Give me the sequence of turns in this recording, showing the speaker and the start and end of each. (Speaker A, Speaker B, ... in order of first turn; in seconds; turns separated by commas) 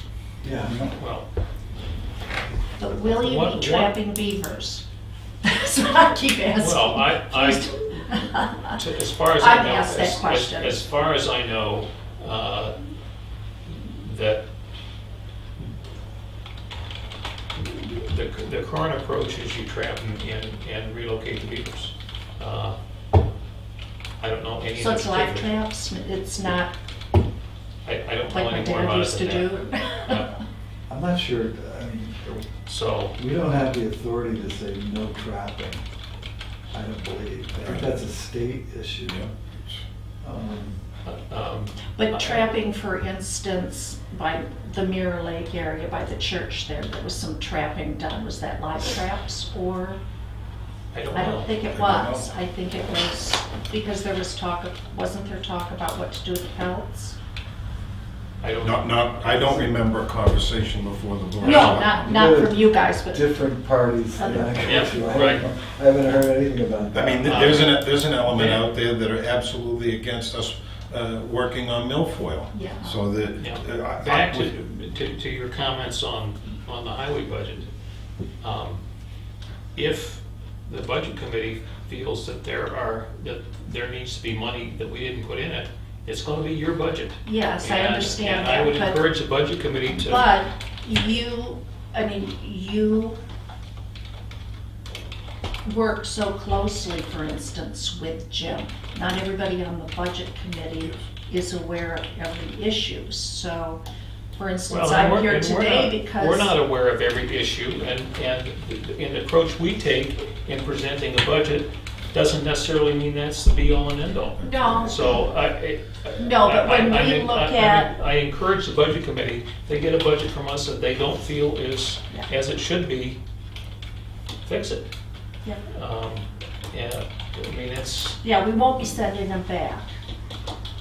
Speaker A: 0.4-0.9, Speaker B: 1.0-1.3, Speaker C: 2.8-4.8, Speaker B: 3.1-4.0, Speaker C: 5.4-8.8, Speaker B: 6.6-7.7, Speaker B: 8.8-12.8, Speaker C: 9.4-10.8, Speaker B: 13.7-14.4, Speaker B: 17.6-22.8, Speaker B: 24.2-25.5, Speaker C: 24.8-26.7, Speaker B: 27.8-30.3, Speaker C: 28.3-30.3, Speaker A: 30.9-32.5, Speaker B: 32.7-33.2, Speaker A: 33.2-35.8, Speaker A: 36.7-39.2, Speaker D: 39.0-39.8, Speaker A: 40.2-40.8, Speaker B: 41.0-42.5, Speaker C: 42.0-50.0, Speaker B: 50.9-51.5, Speaker C: 51.1-57.2, Speaker D: 51.7-52.3, Speaker B: 58.4-59.7, Speaker D: 58.6-62.1, Speaker C: 61.4-63.3, Speaker B: 61.4-61.8, Speaker A: 61.9-67.7, Speaker C: 64.2-65.4, Speaker B: 64.5-65.4, Speaker D: 66.9-74.5, Speaker B: 67.2-68.6, Speaker C: 72.5-73.0, Speaker B: 73.4-77.7, Speaker B: 78.4-78.8, Speaker B: 79.8-90.3, Speaker C: 87.2-89.0, Speaker C: 90.0-93.2, Speaker C: 95.6-103.8, Speaker C: 104.4-106.5, Speaker B: 104.7-123.2, Speaker C: 114.4-115.3, Speaker C: 116.2-117.9, Speaker B: 124.4-124.9, Speaker B: 125.7-128.2, Speaker C: 128.2-129.9